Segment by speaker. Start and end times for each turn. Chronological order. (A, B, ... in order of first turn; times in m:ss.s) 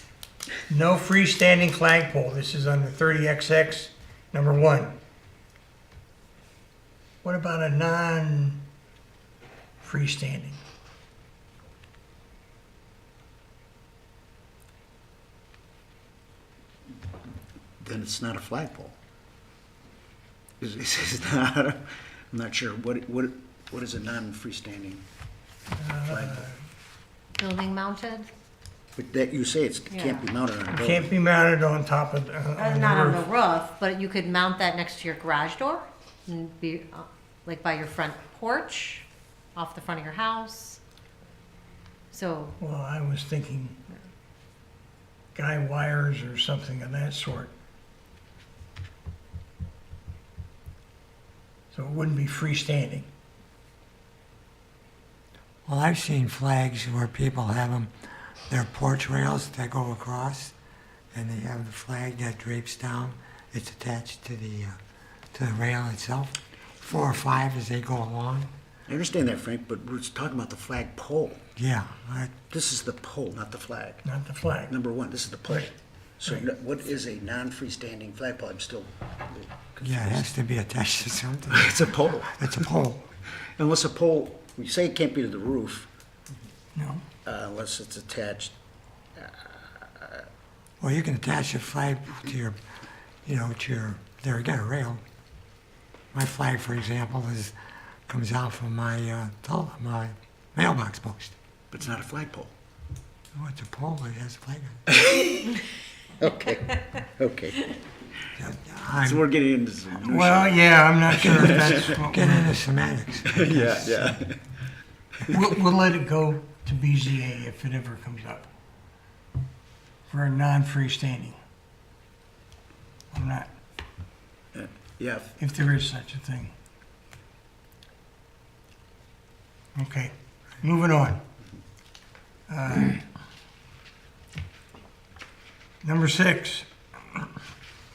0:00.7-0:05.0 A
0:07.2-0:08.6 A
0:09.8-0:10.6 A
0:17.8-0:19.0 B
0:20.6-0:25.0 B
0:25.8-0:26.6 A
0:26.1-0:26.4 B
0:27.4-0:28.3 C
0:29.0-0:31.1 B
0:29.9-0:30.3 C
0:30.7-0:33.3 A
0:32.6-0:40.8 C
0:42.1-0:42.6 C
0:42.6-0:43.8 A
0:45.4-0:47.5 A
0:51.7-0:53.1 A
0:55.7-0:57.9 D
0:58.5-1:00.5 D
1:01.1-1:04.8 D
1:05.3-1:08.5 D
1:08.9-1:11.4 B
1:11.6-1:12.3 D
1:12.5-1:14.0 B
1:14.0-1:14.7 A
1:14.7-1:20.3 B
1:19.8-1:23.1 D
1:21.5-1:22.7 B
1:23.6-1:25.9 B
1:26.8-1:27.0 A
1:27.2-1:28.5 B
1:29.2-1:30.2 B
1:30.8-1:32.6 D
1:33.2-1:35.0 D
1:36.1-1:37.6 D
1:38.1-1:41.4 D
1:41.7-1:42.5 B
1:43.4-1:44.8 D
1:44.9-1:45.6 B
1:46.2-1:47.7 B
1:48.4-1:49.2 D
1:49.0-1:50.6 B
1:50.1-1:52.5 A
1:51.1-1:54.2 D
1:51.2-1:51.9 B
1:53.2-1:54.4 B
1:55.3-1:58.5 A
2:00.1-2:01.4 A
2:03.1-2:03.5 A
2:04.5-2:05.4 B
2:05.4-2:06.5 A
2:09.8-2:11.2 A
2:12.5-2:13.0 A
2:15.8-2:17.2 A